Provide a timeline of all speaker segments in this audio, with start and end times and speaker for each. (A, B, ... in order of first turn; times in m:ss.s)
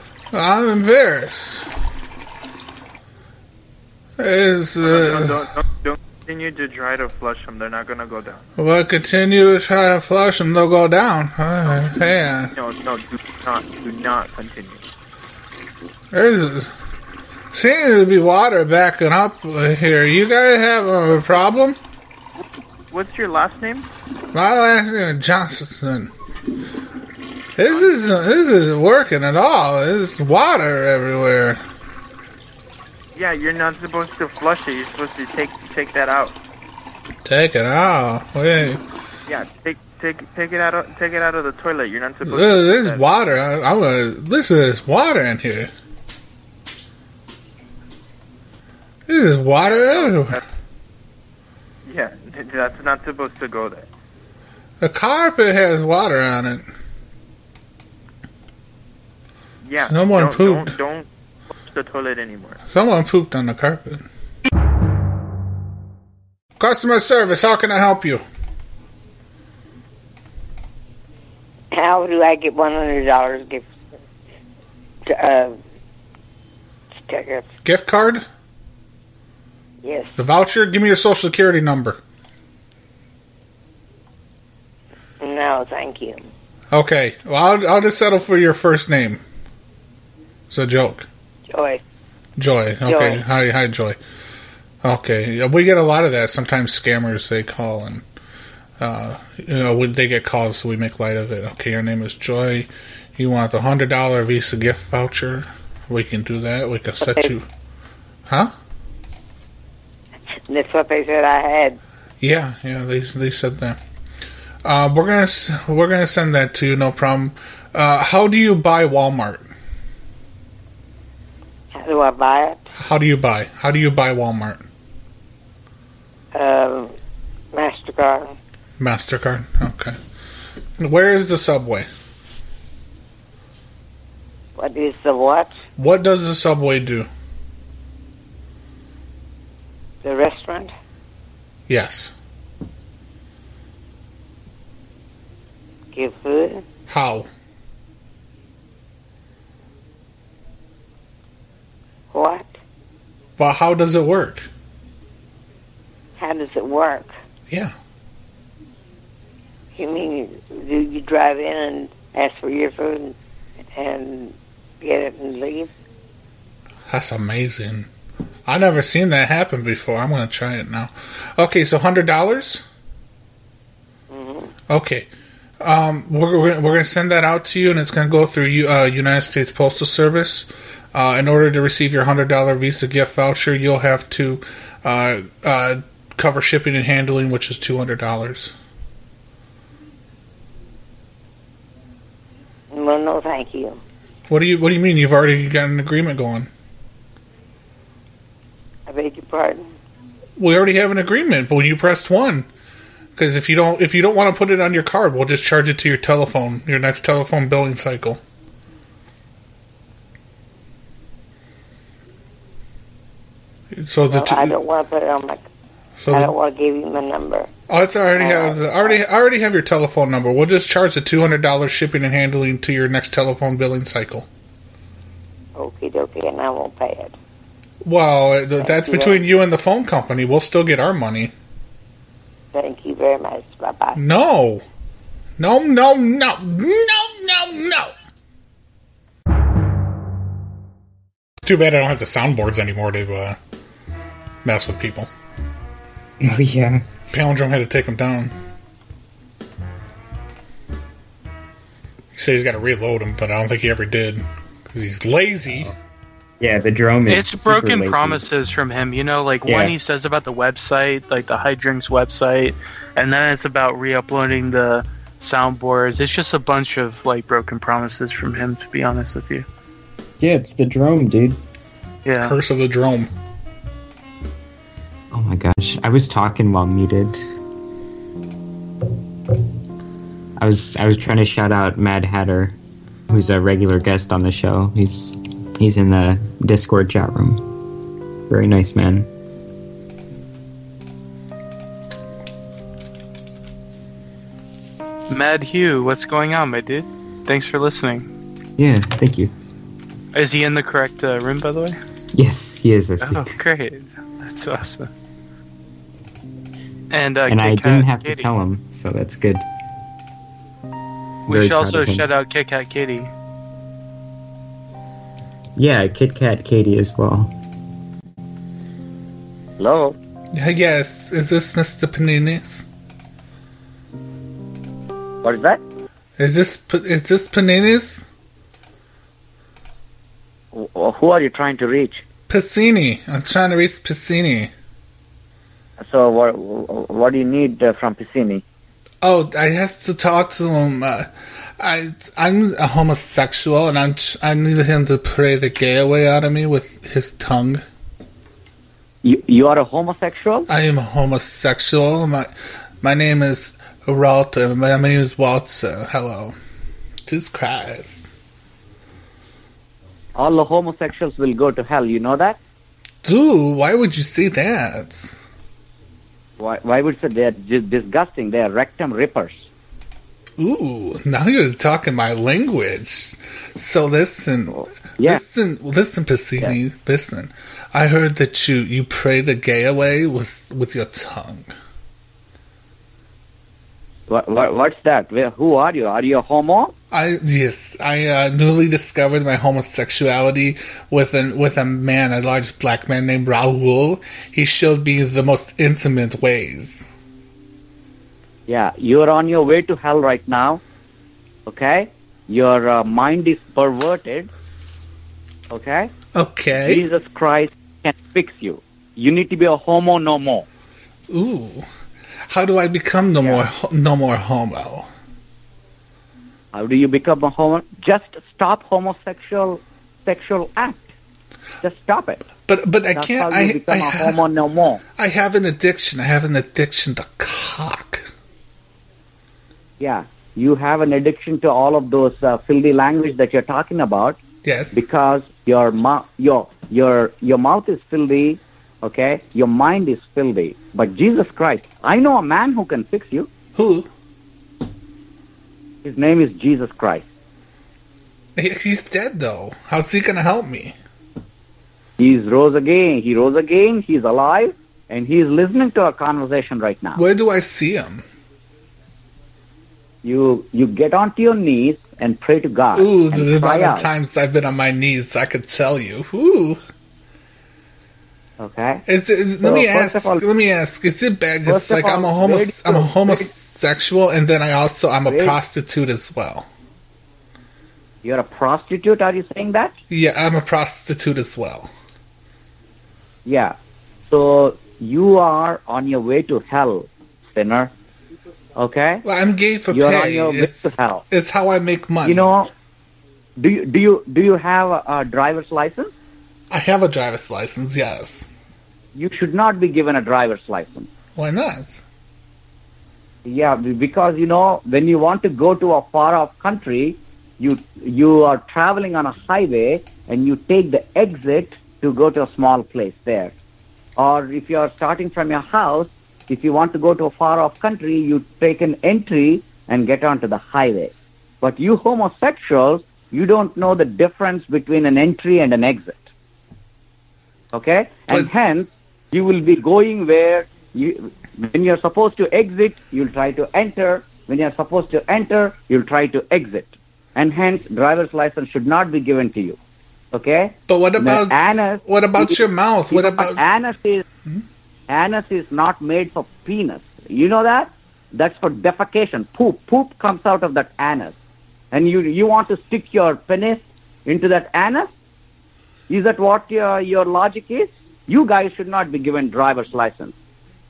0:00.3-0:01.7 A
0:04.2-0:05.5 A
0:04.8-0:08.4 B
0:08.6-0:12.5 A
0:11.7-0:14.9 B
0:16.1-0:16.7 A
0:17.5-0:21.8 A
0:22.9-0:23.9 B
0:24.3-0:26.1 A
0:27.6-0:31.6 A
0:27.6-0:28.2 B
0:33.2-0:36.4 B
0:37.2-0:38.8 A
0:39.3-0:43.1 B
0:42.2-0:45.7 A
0:49.1-0:50.4 A
0:49.6-0:50.4 B
0:51.9-0:53.9 B
0:54.8-0:56.7 A
0:59.6-1:02.6 B
0:59.8-1:00.8 A
1:02.7-1:04.1 A
1:06.6-1:08.2 A
1:11.7-1:13.7 C
1:15.1-1:15.6 C
1:17.0-1:17.5 C
1:17.6-1:18.3 A
1:19.8-1:20.2 C
1:20.2-1:22.0 A
1:25.2-1:26.3 C
1:26.7-1:29.2 A
1:30.5-1:31.1 A
1:31.5-1:31.8 C
1:32.4-1:34.0 A
1:32.9-1:33.2 C
1:34.8-1:38.0 A
1:38.8-1:47.5 A
1:47.0-1:47.3 C
1:48.3-1:48.5 A
1:50.5-1:51.8 C
1:52.2-1:53.8 A
1:54.6-1:59.5 A
2:01.7-2:02.7 C
2:02.8-2:04.7 A
2:06.3-2:06.9 C
2:07.5-2:08.3 C
2:08.8-2:10.0 A
2:10.8-2:11.9 A
2:14.6-2:15.6 C
2:15.8-2:17.1 A
2:20.0-2:20.7 C
2:21.7-2:22.1 A
2:25.9-2:26.6 C
2:26.9-2:27.3 A
2:32.1-2:32.6 C
2:33.4-2:34.5 A
2:36.2-2:37.1 C
2:37.5-2:37.7 A
2:39.8-2:43.2 C
2:43.8-2:45.7 C
2:46.9-2:47.9 A
2:48.5-2:52.7 A
2:54.1-2:54.5 C
2:54.7-2:55.1 A
2:55.6-3:08.5 A
3:12.7-3:13.8 C
3:14.3-3:16.5 A
3:18.9-3:19.7 C
3:20.4-3:22.5 A
3:23.2-3:28.2 A
3:33.7-3:34.6 A
3:34.1-3:35.4 C
3:36.0-3:36.3 A
3:36.1-3:37.5 C
3:37.7-3:44.3 A
3:38.2-3:39.0 C
3:45.6-3:47.2 C
3:47.8-3:51.3 A
3:48.6-3:49.3 C
3:52.5-3:54.0 C
3:54.0-3:54.6 A
3:55.4-3:57.9 A
4:01.4-4:03.4 A
4:04.4-4:05.1 A
4:06.2-4:06.8 D
4:07.1-4:08.3 A
4:12.1-4:15.7 A
4:16.4-4:18.2 D
4:17.1-4:29.5 E
4:19.4-4:19.8 D
4:30.2-4:31.4 D
4:32.0-4:32.4 E
4:32.2-4:33.1 A
4:35.1-4:37.2 D
4:40.4-4:42.6 D
4:43.1-4:47.4 D
4:48.3-4:49.1 D
4:55.1-4:58.1 E
4:58.6-4:59.3 D
5:00.1-5:01.8 E
5:02.1-5:03.4 D
5:03.0-5:04.9 E
5:06.9-5:08.3 E
5:07.3-5:09.5 D
5:11.3-5:13.1 E
5:11.3-5:12.1 D
5:15.6-5:17.3 D
5:19.6-5:20.0 F
5:20.3-5:22.7 A
5:25.2-5:25.6 F
5:26.2-5:28.0 A
5:30.5-5:32.0 F
5:32.3-5:34.5 A
5:35.8-5:38.4 F
5:39.0-5:47.6 A
5:49.0-5:50.5 F
5:50.5-5:56.4 A
5:57.0-5:58.0 A
6:00.2-6:02.4 F
6:03.0-6:05.2 A
6:06.4-6:09.5 F
6:10.4-6:21.5 A
6:14.5-6:15.2 F
6:24.1-6:26.7 F
6:26.9-6:36.9 A
6:38.5-6:40.6 F
6:41.5-6:44.3 F
6:45.5-6:45.9 F
6:46.1-6:46.8 A
6:46.6-6:50.5 F
6:51.1-6:51.7 A
6:52.3-6:54.9 A
6:53.2-6:53.5 F
6:56.5-7:00.9 F
7:01.6-7:02.3 F
7:02.4-7:04.2 A
7:03.0-7:04.8 F
7:05.0-7:08.1 A
7:09.8-7:14.2 F
7:14.4-7:14.8 A
7:14.7-7:23.3 F
7:23.6-7:23.9 A
7:25.8-7:27.1 F
7:28.4-7:30.8 A
7:32.0-7:37.0 F
7:37.0-7:38.0 A
7:40.0-7:43.9 F
7:42.8-7:46.6 A
7:48.4-7:48.8 F
7:48.9-7:56.5 A
7:49.4-7:50.2 F
7:51.5-7:53.3 F
7:55.1-7:55.4 F
7:58.0-7:59.8 F
7:59.9-8:01.7 A
8:03.3-8:07.7 F
8:08.6-8:09.0 F
8:09.0-8:12.4 A
8:09.7-8:11.0 F
8:12.0-8:12.5 F
8:13.4-8:15.9 F
8:16.5-8:18.3 A
8:19.0-8:20.9 F
8:21.2-8:21.8 A
8:23.2-8:33.3 F
8:34.0-8:46.1 F
8:47.5-8:59.6 F
9:00.1-9:04.0 F
9:00.7-9:03.4 A
9:04.9-9:11.2 F
9:11.7-9:14.9 F
9:15.9-9:20.2 F